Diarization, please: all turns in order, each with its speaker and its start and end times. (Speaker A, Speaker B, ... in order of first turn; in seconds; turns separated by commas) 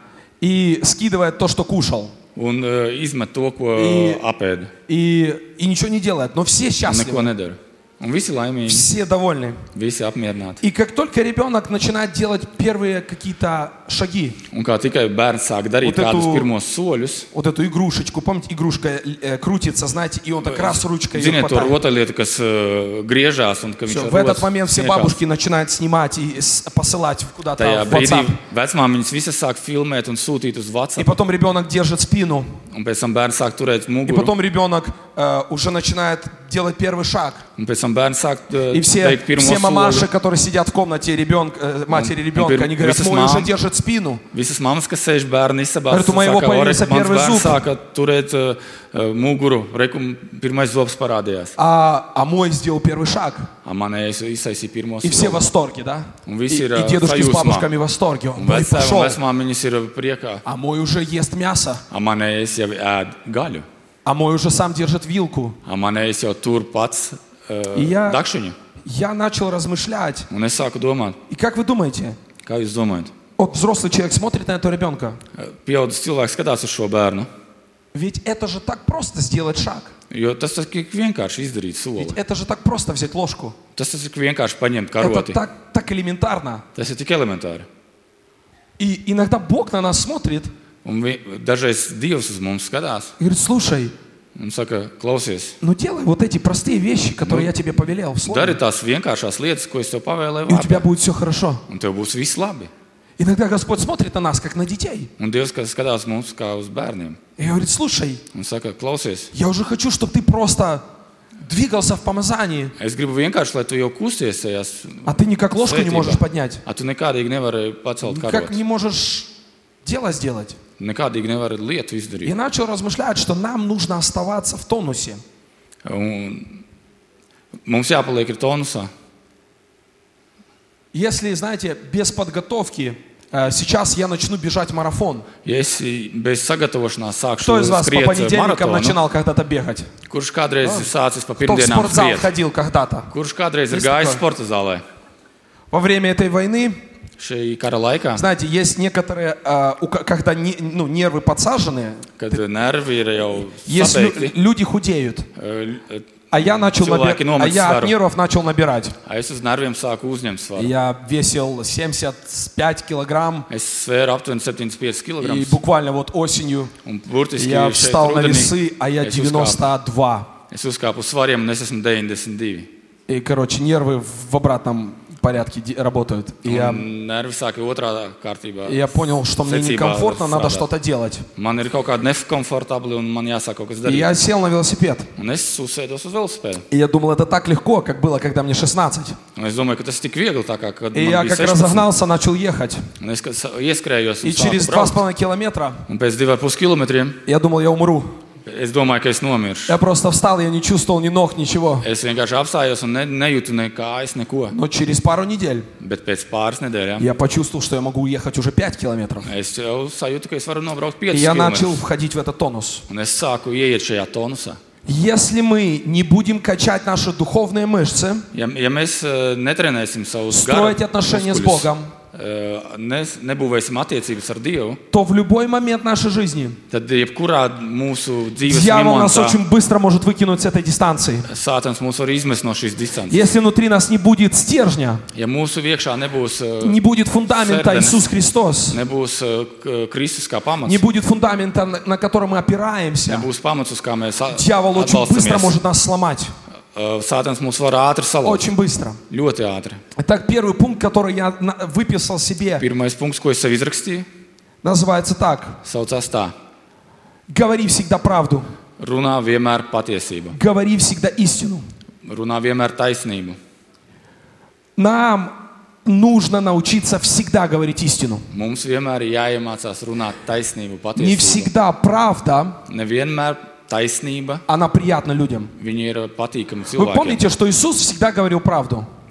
Speaker A: 0.4-2.1, Speaker B: 2.3-4.7, Speaker A: 3.7-4.2, Speaker A: 4.9-7.3, Speaker B: 6.8-8.9, Speaker A: 8.7-9.7, Speaker B: 9.7-10.6, Speaker A: 10.6-14.4, Speaker B: 14.5-17.3, Speaker A: 15.8-16.5, Speaker A: 17.3-21.7, Speaker B: 20.4-25.1, Speaker A: 23.9-28.4, Speaker B: 27.6-31.2, Speaker A: 31.0-32.5, Speaker B: 32.7-34.3, Speaker A: 34.1-37.4, Speaker B: 37.6-40.1, Speaker A: 38.7-44.2, Speaker B: 41.9-43.5, Speaker B: 44.3-51.5, Speaker A: 45.9-47.6, Speaker A: 51.5-53.5, Speaker B: 53.6-55.5, Speaker A: 55.0-59.2, Speaker B: 56.2-57.7, Speaker B: 58.4-60.4, Speaker A: 60.4-61.8, Speaker B: 61.9-63.6, Speaker A: 64.0-65.6, Speaker B: 65.6-68.5, Speaker A: 67.7-68.2, Speaker A: 68.8-70.3, Speaker B: 70.3-71.2, Speaker A: 71.3-72.2, Speaker B: 72.4-73.1, Speaker A: 73.4-75.2, Speaker B: 75.3-77.3, Speaker A: 77.9-79.9, Speaker B: 80.1-82.2, Speaker A: 82.0-83.5, Speaker B: 83.7-85.4, Speaker A: 85.0-86.6, Speaker B: 86.7-87.7, Speaker A: 88.8-90.5, Speaker B: 90.8-93.1, Speaker A: 93.2-93.9, Speaker B: 94.3-95.6, Speaker A: 95.6-98.6, Speaker B: 97.2-97.5, Speaker B: 98.2-100.9, Speaker A: 100.5-101.6, Speaker B: 101.7-102.7, Speaker A: 103.2-105.1, Speaker B: 105.2-107.2, Speaker A: 107.4-108.2, Speaker B: 108.3-109.3, Speaker A: 109.3-110.8, Speaker A: 111.4-112.7, Speaker B: 112.8-118.6, Speaker A: 115.0-116.6, Speaker A: 118.0-119.3, Speaker A: 119.8-120.6, Speaker B: 120.8-122.3, Speaker A: 122.2-125.2, Speaker B: 125.8-126.6, Speaker B: 127.6-128.9, Speaker A: 130.9-135.3, Speaker B: 135.4-139.0, Speaker A: 137.4-139.9, Speaker B: 140.1-142.3, Speaker A: 141.4-143.1, Speaker B: 143.1-144.8, Speaker A: 143.7-144.2, Speaker A: 145.7-146.8, Speaker B: 147.2-148.2, Speaker A: 148.1-152.2, Speaker B: 152.2-154.3, Speaker A: 153.6-155.3, Speaker B: 155.3-157.9, Speaker A: 156.3-158.9, Speaker B: 159.0-160.7, Speaker A: 160.6-163.5, Speaker B: 163.5-165.6, Speaker A: 165.2-166.7, Speaker B: 166.8-169.6, Speaker A: 167.4-170.3, Speaker B: 170.5-172.7, Speaker A: 173.1-176.8, Speaker B: 176.4-180.7, Speaker A: 178.7-181.2, Speaker B: 181.3-184.1, Speaker A: 183.8-185.1, Speaker B: 185.2-186.6, Speaker A: 186.7-189.2, Speaker B: 189.3-191.9, Speaker A: 190.9-192.9, Speaker B: 193.0-195.0, Speaker A: 194.2-195.8, Speaker B: 195.9-197.2, Speaker A: 197.2-198.2, Speaker B: 198.4-199.8, Speaker A: 199.7-201.8, Speaker B: 201.8-204.6, Speaker A: 204.5-205.7, Speaker B: 205.8-207.1, Speaker A: 207.0-209.3, Speaker B: 209.2-211.8, Speaker A: 211.1-212.8, Speaker B: 212.9-214.6, Speaker A: 214.8-218.3, Speaker B: 218.3-224.8, Speaker A: 220.3-221.9, Speaker A: 224.9-226.6, Speaker B: 226.7-229.4, Speaker A: 228.4-231.3, Speaker B: 231.3-233.3, Speaker A: 233.1-235.0, Speaker B: 235.1-238.0, Speaker A: 236.6-238.8, Speaker B: 238.7-240.8, Speaker A: 240.6-243.3, Speaker B: 243.1-245.6, Speaker A: 244.3-246.3, Speaker B: 246.7-248.4, Speaker A: 248.2-249.0, Speaker B: 249.1-249.8, Speaker A: 249.9-252.6, Speaker B: 252.6-254.1, Speaker A: 254.6-255.6, Speaker B: 255.6-256.3, Speaker A: 257.3-258.5, Speaker B: 258.8-260.4, Speaker A: 260.3-261.6, Speaker B: 262.0-263.4, Speaker A: 264.8-268.3, Speaker B: 268.3-271.5, Speaker A: 271.0-272.6, Speaker B: 272.7-274.4, Speaker A: 274.5-275.5, Speaker B: 275.6-277.2, Speaker A: 276.7-278.9